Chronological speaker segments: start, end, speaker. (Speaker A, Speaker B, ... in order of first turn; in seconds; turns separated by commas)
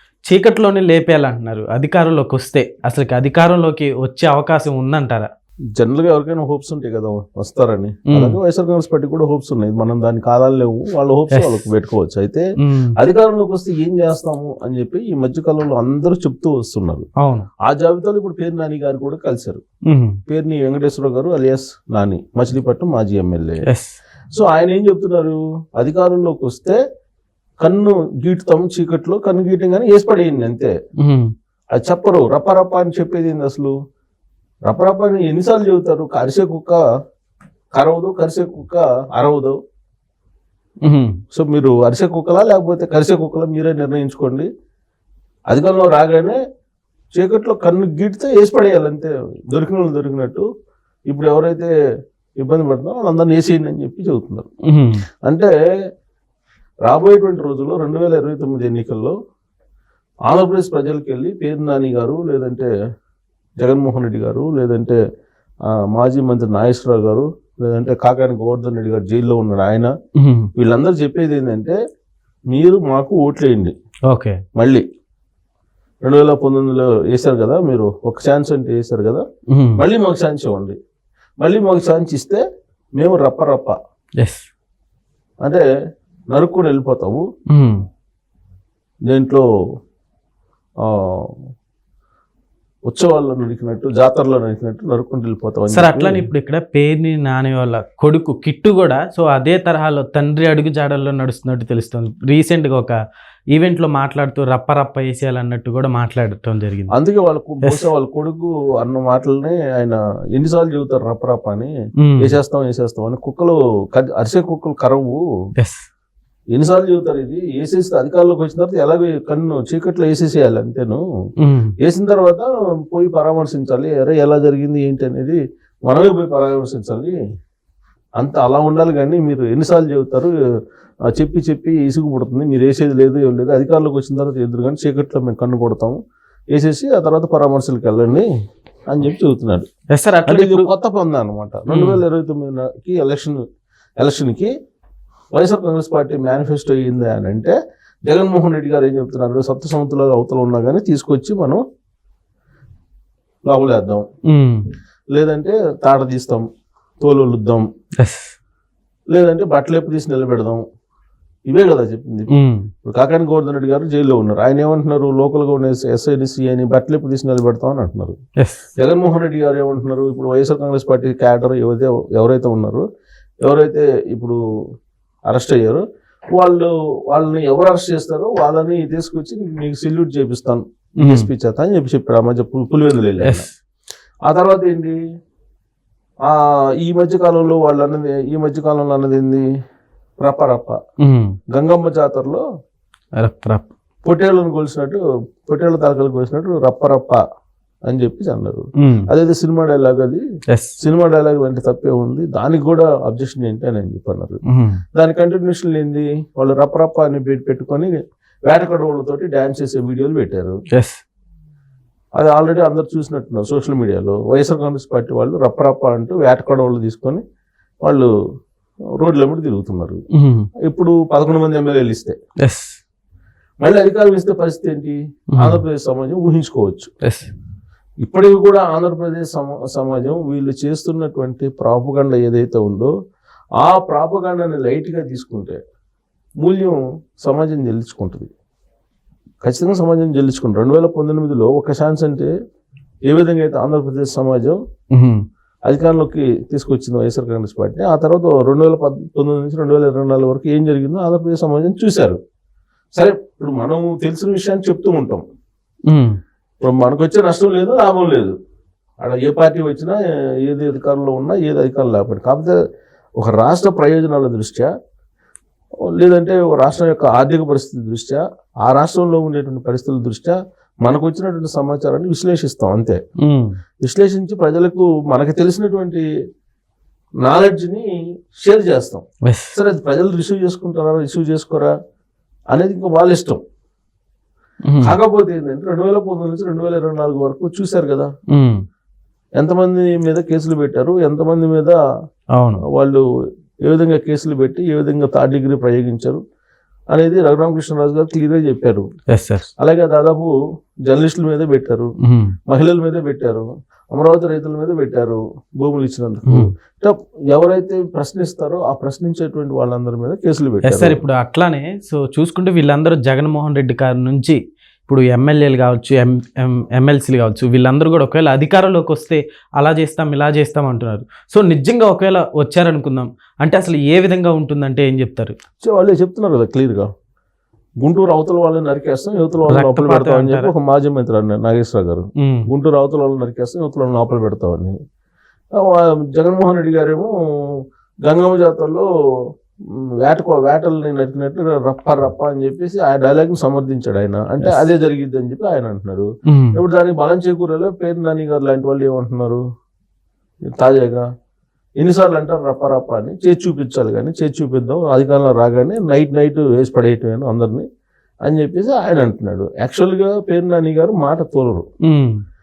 Speaker A: 0.3-5.3, Speaker B: 5.8-12.4, Speaker A: 8.1-8.4, Speaker A: 11.3-11.7, Speaker A: 12.6-12.9, Speaker B: 13.0-17.1, Speaker A: 17.2-17.5, Speaker B: 17.6-19.6, Speaker A: 19.9-20.2, Speaker B: 20.3-23.6, Speaker A: 23.7-24.0, Speaker B: 24.3-26.8, Speaker B: 27.6-30.7, Speaker A: 31.0-31.3, Speaker B: 31.7-33.7, Speaker B: 34.7-36.8, Speaker B: 37.8-39.6, Speaker A: 40.8-41.2, Speaker B: 41.3-44.5, Speaker B: 45.5-46.4, Speaker B: 47.1-50.5, Speaker B: 51.1-51.7, Speaker B: 52.4-54.5, Speaker A: 54.7-55.0, Speaker B: 55.3-55.5, Speaker B: 56.8-59.1, Speaker B: 60.3-62.7, Speaker B: 63.6-65.0, Speaker B: 65.9-69.9, Speaker A: 70.2-70.5, Speaker B: 70.5-71.8, Speaker B: 72.5-73.7, Speaker A: 74.1-74.4, Speaker B: 74.6-74.8, Speaker B: 76.0-79.2, Speaker A: 79.5-79.8, Speaker B: 79.8-80.8, Speaker B: 81.4-82.4, Speaker B: 83.0-83.8, Speaker A: 84.2-84.5, Speaker B: 86.3-87.2, Speaker A: 87.5-87.8, Speaker B: 89.1-89.4, Speaker B: 90.8-91.3, Speaker B: 92.9-96.3, Speaker A: 95.7-103.0, Speaker A: 103.5-106.9, Speaker B: 106.9-115.2, Speaker A: 107.6-107.9, Speaker A: 112.0-112.3, Speaker A: 115.6-115.8, Speaker B: 116.5-121.0, Speaker A: 121.4-121.7, Speaker B: 121.8-127.2, Speaker B: 128.2-130.3, Speaker B: 131.1-136.0, Speaker B: 136.5-138.3, Speaker B: 138.9-139.7, Speaker A: 139.9-140.7, Speaker B: 140.3-143.4, Speaker A: 141.7-142.0, Speaker B: 144.0-144.5, Speaker B: 145.3-151.6, Speaker B: 153.5-154.0, Speaker A: 154.3-154.6, Speaker B: 155.1-156.4, Speaker B: 157.0-157.7, Speaker A: 158.0-158.3, Speaker B: 159.1-160.6, Speaker B: 161.5-162.3, Speaker A: 162.3-162.7, Speaker B: 162.8-168.2, Speaker A: 168.4-168.7, Speaker B: 168.8-172.8, Speaker B: 173.4-174.4, Speaker B: 175.3-183.5, Speaker A: 181.0-181.3, Speaker A: 183.2-183.5, Speaker B: 184.3-185.0, Speaker B: 186.3-189.5, Speaker B: 190.2-190.8, Speaker A: 191.0-191.4, Speaker B: 191.5-192.4, Speaker A: 193.2-193.7, Speaker B: 194.0-197.2, Speaker B: 197.9-200.2, Speaker A: 198.8-199.1, Speaker A: 200.5-200.8, Speaker B: 200.8-204.4, Speaker A: 204.5-204.8, Speaker B: 204.9-207.9, Speaker B: 208.5-210.6, Speaker A: 210.7-211.0, Speaker B: 212.2-217.2, Speaker B: 217.8-218.1, Speaker B: 219.0-220.0, Speaker A: 220.1-220.5, Speaker B: 220.6-222.2, Speaker A: 222.4-222.8, Speaker B: 223.6-226.9, Speaker A: 225.3-225.6, Speaker A: 227.0-227.3, Speaker B: 228.0-232.9, Speaker B: 233.6-235.6, Speaker B: 236.4-238.3, Speaker B: 239.4-242.3, Speaker B: 243.1-244.6, Speaker A: 244.9-245.2, Speaker B: 245.7-252.2, Speaker B: 253.0-255.2, Speaker A: 255.9-256.2, Speaker B: 256.6-258.4, Speaker B: 259.0-262.6, Speaker B: 263.2-264.7, Speaker B: 265.9-273.0, Speaker A: 273.2-273.6, Speaker B: 273.8-276.1, Speaker B: 277.2-277.9, Speaker B: 278.4-281.7, Speaker A: 279.2-279.5, Speaker B: 282.5-283.4, Speaker A: 284.6-285.0, Speaker B: 284.8-288.1, Speaker A: 288.3-288.6, Speaker B: 289.4-291.8, Speaker A: 292.4-292.6, Speaker B: 292.7-293.0, Speaker B: 293.6-296.2, Speaker B: 296.9-298.9, Speaker A: 299.1-299.5, Speaker B: 299.6-300.3, Speaker B: 300.9-301.9, Speaker A: 302.0-302.3, Speaker B: 302.5-311.0, Speaker A: 306.3-306.5, Speaker A: 310.6-325.4, Speaker B: 325.6-326.9, Speaker B: 327.8-334.8, Speaker A: 329.5-330.5, Speaker A: 332.2-332.5, Speaker B: 335.6-338.9, Speaker B: 340.0-349.4, Speaker A: 346.3-346.6, Speaker B: 350.6-351.1, Speaker B: 351.8-357.7, Speaker B: 358.2-361.6, Speaker A: 361.8-362.2